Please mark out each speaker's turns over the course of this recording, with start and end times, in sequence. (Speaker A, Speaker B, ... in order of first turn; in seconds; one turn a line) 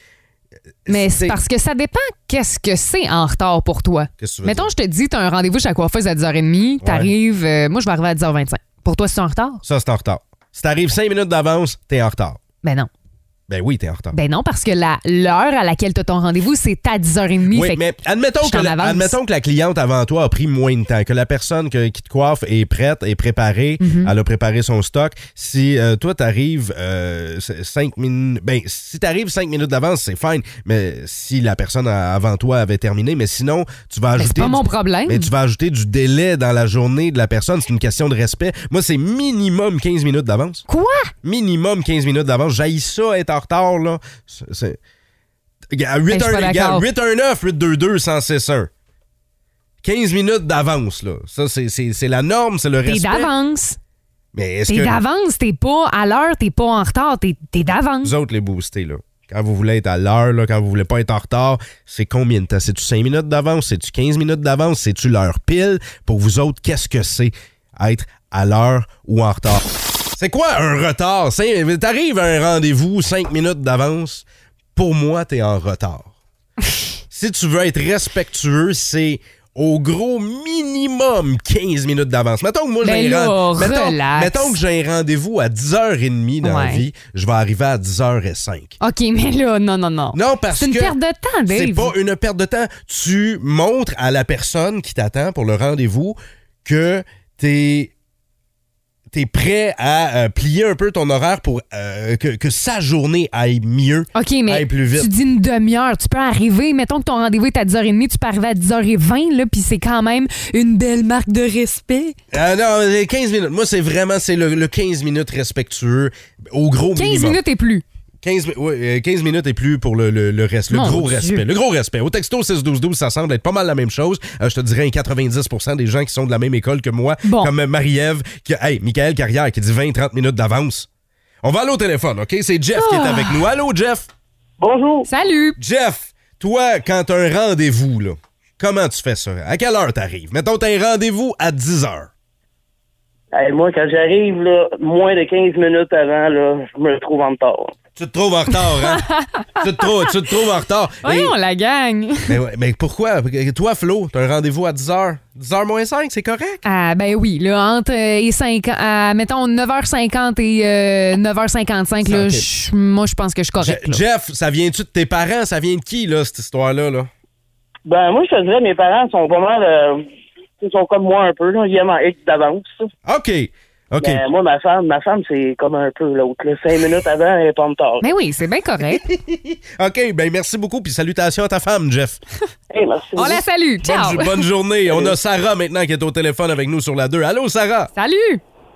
Speaker A: 0.8-1.4
Speaker B: 0.9-9.6
Speaker A: 4.2-4.7
Speaker A: 6.8-7.1
Speaker A: 9.7-12.4
Speaker B: 12.6-12.9
Speaker A: 13.5-14.2
Speaker B: 14.1-17.8
Speaker A: 17.5-40.6
Speaker B: 18.4-19.2
Speaker B: 23.8-24.1
Speaker B: 34.2-35.3
Speaker B: 40.7-41.1
Speaker A: 41.2-44.8
Speaker A: 45.7-48.7
Speaker B: 46.1-46.9
Speaker A: 49.8-53.3
Speaker B: 52.9-53.8
Speaker A: 54.3-55.0
Speaker B: 54.7-58.1
Speaker A: 58.0-69.6
Speaker A: 70.2-74.2
Speaker A: 74.8-76.1
Speaker A: 77.1-88.8
Speaker B: 82.8-84.6
Speaker B: 86.4-86.8
Speaker B: 88.8-91.9
Speaker A: 90.1-91.0
Speaker A: 91.5-97.9
Speaker A: 99.1-105.1
Speaker B: 104.2-112.2
Speaker A: 112.3-117.4
Speaker B: 117.0-117.8
Speaker A: 118.2-130.9
Speaker B: 120.7-121.4
Speaker B: 127.2-127.5
Speaker A: 131.4-134.1
Speaker B: 132.8-133.4
Speaker C: 134.6-135.1
Speaker B: 135.1-135.6
Speaker A: 135.6-142.1
Speaker C: 143.3-147.7
Speaker A: 148.0-149.1
Speaker B: 148.9-149.6
Speaker A: 149.6-151.3
Speaker B: 151.0-152.4
Speaker A: 152.3-156.6
Speaker B: 156.7-164.0
Speaker A: 162.1-162.5
Speaker A: 163.6-167.1
Speaker C: 167.9-170.1
Speaker C: 170.6-172.8
Speaker A: 173.1-174.2
Speaker C: 174.0-178.1
Speaker B: 178.0-179.0
Speaker A: 179.0-182.2
Speaker C: 182.7-183.4
Speaker B: 183.2-184.4
Speaker A: 183.8-187.9
Speaker C: 184.9-185.2
Speaker B: 187.9-188.4